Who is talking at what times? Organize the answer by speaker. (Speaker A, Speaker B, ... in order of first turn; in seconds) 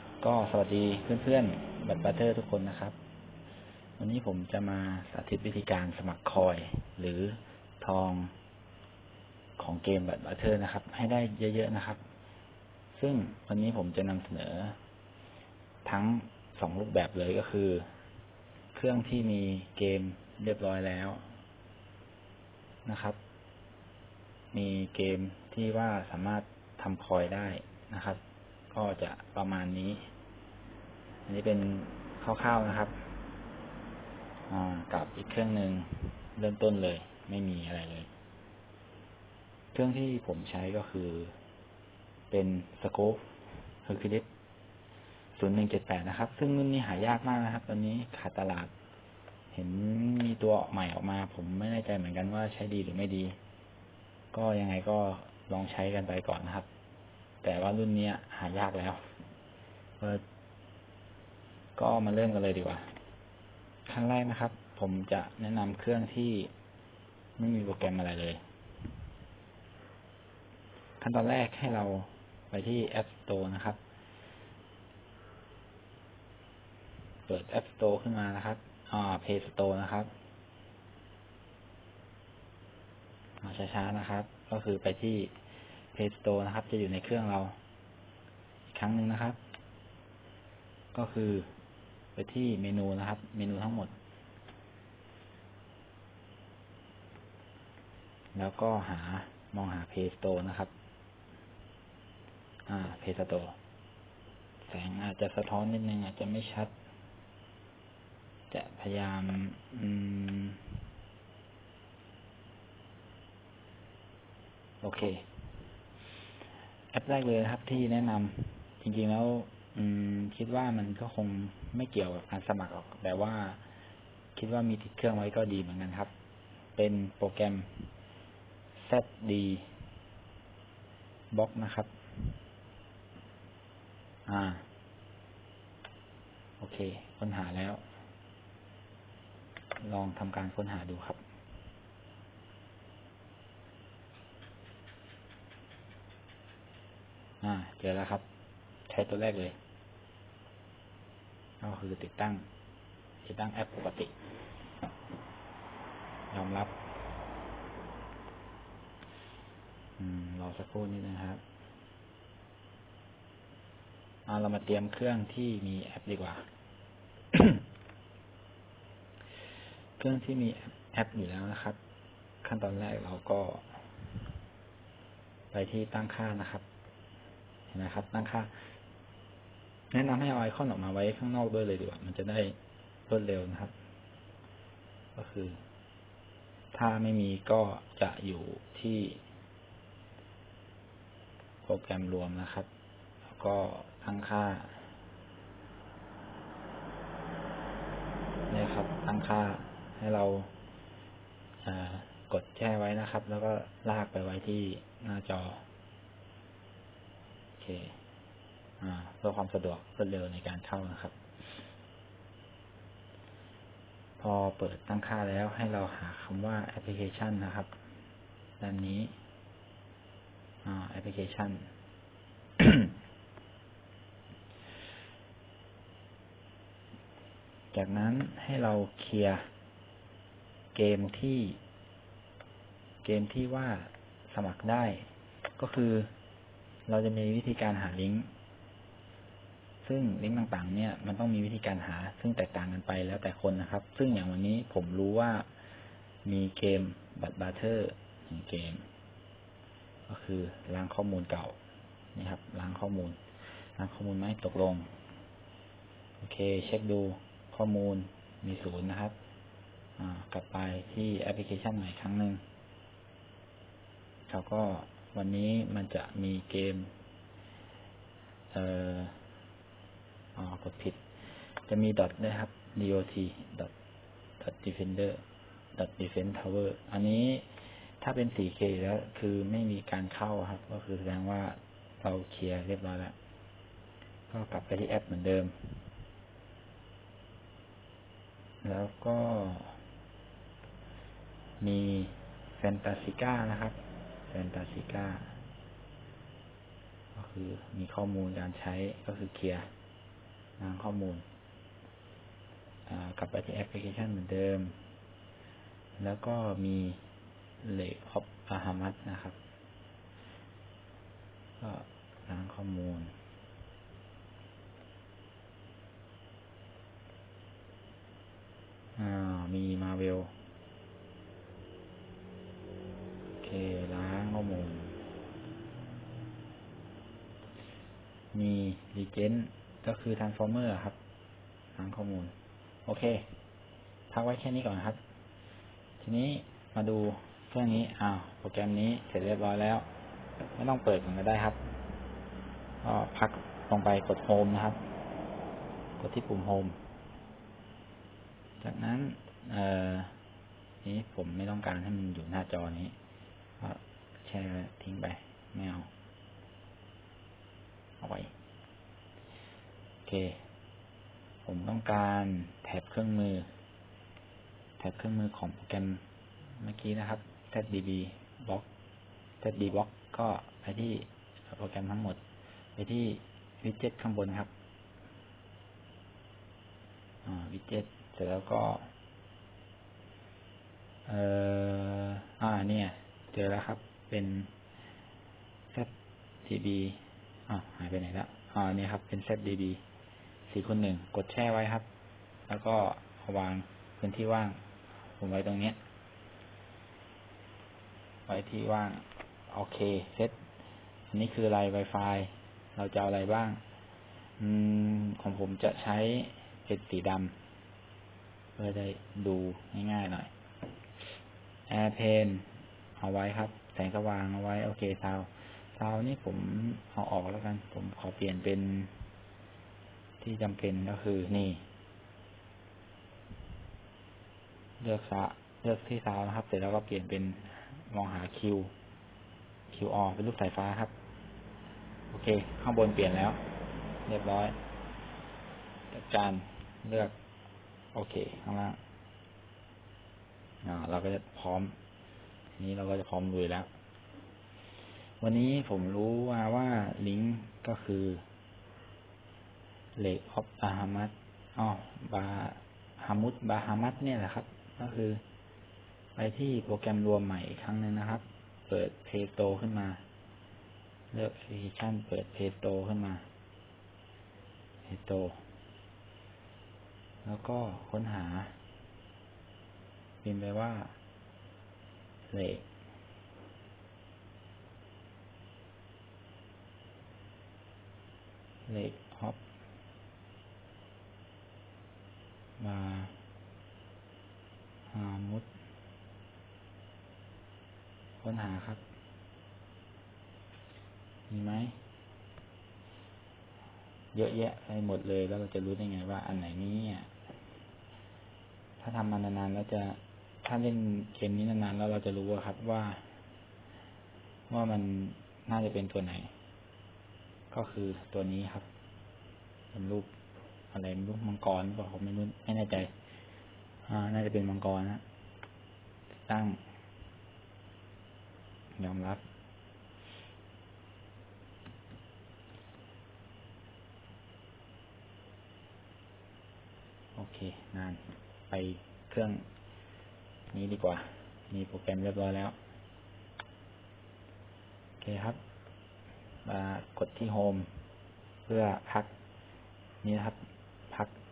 Speaker A: 0.2-3.0, 4.0-8.3, 9.6-12.0, 12.9-14.8, 15.8-17.9, 18.7-21.3, 22.9-23.2, 24.5-28.2, 28.7-30.1, 31.3-33.1, 34.5-38.1, 39.7-41.3, 42.3-43.2, 43.8-44.3, 45.4-48.7, 49.5-53.4, 54.3-56.7, 57.4-59.1, 61.8-62.9, 63.9-66.5, 67.4-68.4, 71.0-73.8, 77.3-80.1, 83.4-85.3, 85.9-87.6, 88.7-89.4, 90.9-91.5, 92.2-93.9, 98.3-100.7, 102.7-103.6, 104.7-106.7, 108.5-110.7, 114.8-115.2, 116.9-123.6, 124.4-126.1, 126.8-127.9, 128.8-129.7, 131.3-131.9, 134.3-134.7, 136.6-137.8, 139.8-141.2, 147.4-148.2, 148.9-149.6, 151.6-152.5, 153.2-154.1, 156.3-156.7, 160.0-161.4, 164.3-166.4, 167.3-167.6, 170.0-171.8, 172.4-173.7, 175.5-176.6, 177.7-178.5, 179.9-182.6, 183.1-183.7, 185.2-185.6, 186.7-189.2, 191.6-192.7, 193.3-194.8, 198.5-200.5, 201.7-205.6, 207.6-208.0, 208.8-211.6, 214.2-217.8, 218.6-219.1, 220.6-221.7, 222.6-222.9, 227.7-229.5, 230.8-231.6, 233.0-236.1, 236.9-238.3, 239.8-245.5, 246.2-248.9, 250.1-251.6, 252.2-253.2, 253.8-254.9, 256.2-259.2, 260.0-262.4, 264.3-266.9, 268.5-269.2, 270.4-271.0, 271.7-273.7, 274.4-275.2, 275.8-283.1, 284.3-285.7, 288.6-289.8, 291.6-295.4, 297.1-299.7, 300.6-301.2, 302.9-304.8, 306.0-307.0, 307.6-309.4, 311.6-313.1, 319.0-320.3, 323.4-325.0, 328.3-331.0, 331.8-332.3, 332.9-333.3, 334.1-335.0, 336.0-339.9, 340.6-341.6, 342.8-344.8, 346.0-346.8, 348.6-350.1, 350.8-352.9, 353.6-355.9, 358.0-358.3, 360.1-360.4, 361.4-363.5, 364.8-366.0, 366.6-368.7, 369.4-372.2, 372.8-374.5, 377.2-378.9, 381.1-384.5, 386.4-389.8, 390.5-391.9, 392.5-394.6, 395.2-395.8, 398.3-400.4, 401.1-403.6, 404.4-407.4, 408.6-410.3, 411.7-412.5, 413.0-418.9, 420.2-421.6, 424.8-428.7, 429.7-430.9, 432.1-433.4, 434.1-434.6, 435.9-437.1, 437.9-438.8, 440.6-441.8, 442.6-443.7, 445.2-448.2, 450.0-455.2, 456.2-460.0, 461.1-463.2, 464.9-465.4, 467.2-468.6, 470.2-470.9, 472.3-472.7, 478.7-479.4, 482.6-483.2, 484.9-485.5, 488.2-488.8, 491.3-491.8, 494.1-497.1, 498.8-503.0, 504.5-506.3, 507.5-508.7, 509.7-510.1, 510.7-512.9, 513.9-515.0, 516.3-516.6, 518.8-519.2, 527.2-529.5, 530.5-532.5, 535.0-535.4, 536.5-537.7, 538.5-539.1, 540.0-541.1